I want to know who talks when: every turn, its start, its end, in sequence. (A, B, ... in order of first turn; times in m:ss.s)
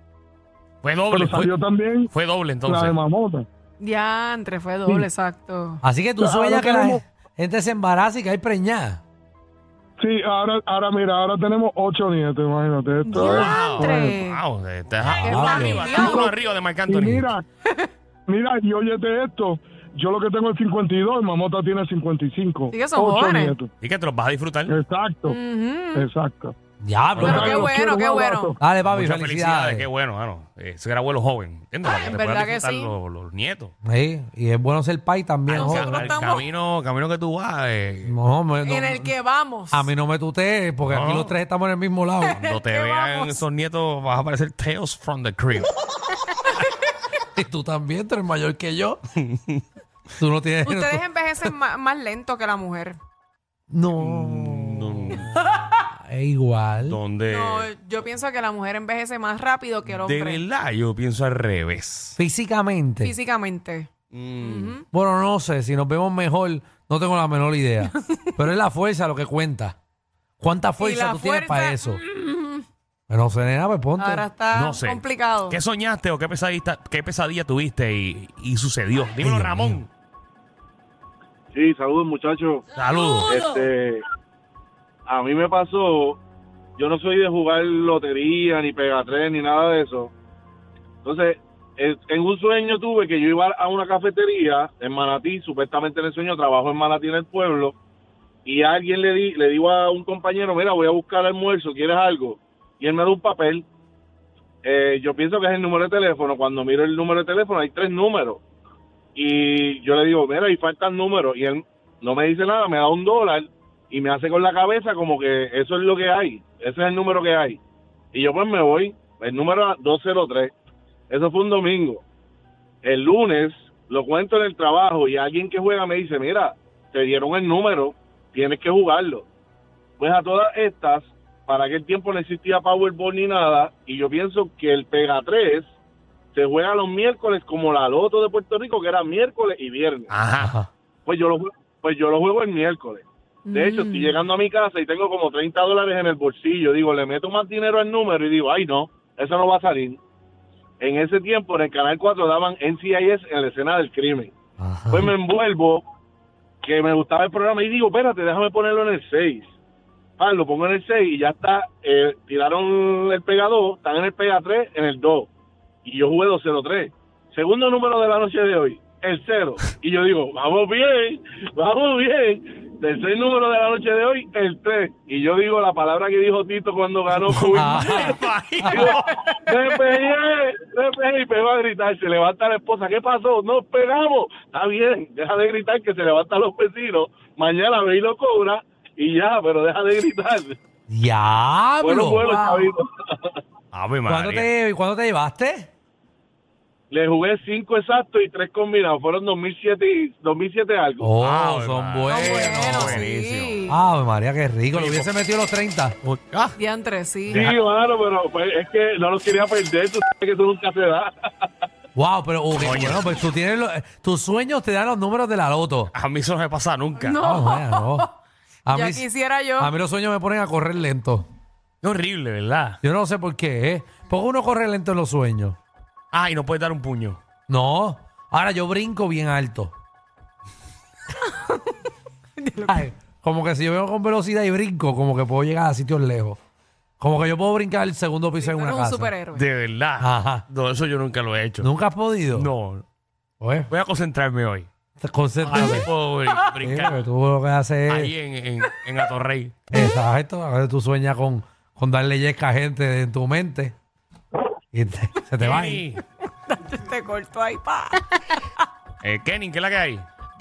0:00.8-0:03.0 A
0:01.1-0:02.1 B
0:02.6-0:03.4 B
0:03.8-0:05.8 C
0:05.8-0:09.0 D
0:06.2-0:07.0 B
0:10.0-0:14.2 B
0:13.0-0:14.4 C
0:13.2-0:17.3 A
0:15.0-0:16.0 D
0:15.1-0:16.3 C
0:15.9-0:17.4 B
0:18.3-0:23.7 B
0:22.7-0:23.5 C
0:23.8-0:24.7 A
0:24.7-0:25.4 B
0:25.3-0:26.0 C
0:25.9-0:26.5 B
0:26.8-0:27.7 D
0:27.2-0:27.6 A
0:27.2-0:28.6 B
0:27.2-0:28.5 C
0:28.6-0:29.9 D
0:28.9-0:33.7 A
0:32.0-0:32.9 C
0:33.8-0:36.1 D
0:35.5-0:38.1 A
0:35.5-0:36.4 C
0:38.0-0:39.1 D
0:38.6-0:39.9 C
0:39.7-0:42.4 D
0:40.9-0:41.3 A
0:42.2-0:43.4 C
0:42.4-0:45.7 A
0:47.3-0:49.0 D
0:49.3-0:49.6 A
0:50.2-0:51.0 D
0:50.6-0:53.0 C
0:53.7-0:57.0 D
0:54.0-0:55.3 A
0:56.9-0:57.7 A
0:57.3-1:00.4 C
0:59.9-1:02.2 A
1:02.2-1:03.1 D
1:03.0-1:03.9 C
1:04.1-1:04.7 A
1:04.4-1:04.8 C
1:04.9-1:09.8 D
1:10.4-1:12.0 D
1:10.8-1:12.6 C
1:13.1-1:14.3 D
1:14.0-1:15.6 C
1:14.5-1:19.9 A
1:19.2-1:19.8 D
1:21.5-1:22.6 E
1:22.7-1:23.5 A
1:23.3-1:24.0 E
1:25.1-1:26.2 E
1:26.8-1:30.1 E
1:31.0-1:37.7 E
1:38.4-1:43.6 E
1:44.6-1:48.4 E
1:49.2-1:57.6 E
1:58.1-2:00.5 E
2:01.1-2:02.0 E
2:02.8-2:09.2 E
2:10.0-2:15.6 E
2:16.3-2:20.0 E
2:20.1-2:20.7 A
2:21.1-2:30.0 E
2:23.4-2:24.2 C
2:30.8-2:34.3 E
2:34.6-2:35.1 D
2:34.9-2:35.8 E
2:36.6-2:39.4 E
2:40.2-2:45.3 E
2:45.8-2:58.0 E
2:57.1-2:59.9 A
2:57.5-2:58.2 D
2:59.5-3:10.6 E
3:10.9-3:12.3 D
3:11.8-3:13.3 E
3:12.2-3:12.7 C
3:13.7-3:14.5 A
3:14.1-3:15.7 D
3:16.9-3:21.1 E
3:21.0-3:23.0 D
3:21.2-3:23.6 A
3:22.1-3:23.8 C
3:23.7-3:26.0 D
3:24.7-3:25.1 A
3:26.0-3:26.6 A
3:26.6-3:27.5 C
3:27.3-3:27.7 A
3:27.4-3:31.1 E
3:31.9-3:35.9 D
3:32.6-3:33.0 A
3:35.9-3:37.2 A
3:37.0-3:38.1 C
3:37.2-3:38.1 D
3:38.6-3:41.3 D
3:38.7-3:39.7 C
3:41.8-3:42.8 A
3:42.8-3:45.6 D
3:46.1-3:47.2 A
3:47.5-3:49.7 D
3:51.3-3:51.6 C
3:52.4-3:52.9 C
3:52.7-3:56.4 D
3:57.0-3:59.1 D
3:58.4-3:59.4 C
3:59.3-4:01.7 A
4:00.0-4:00.4 D
4:01.6-4:02.5 D
4:02.3-4:02.8 A
4:03.4-4:03.7 D
4:03.7-4:04.7 A
4:05.0-4:05.9 D
4:05.4-4:07.1 A
4:06.6-4:08.1 D
4:07.9-4:09.6 A
4:09.7-4:13.7 D
4:14.7-4:15.8 D
4:15.4-4:16.0 A
4:16.4-4:18.4 C
4:19.0-4:20.1 A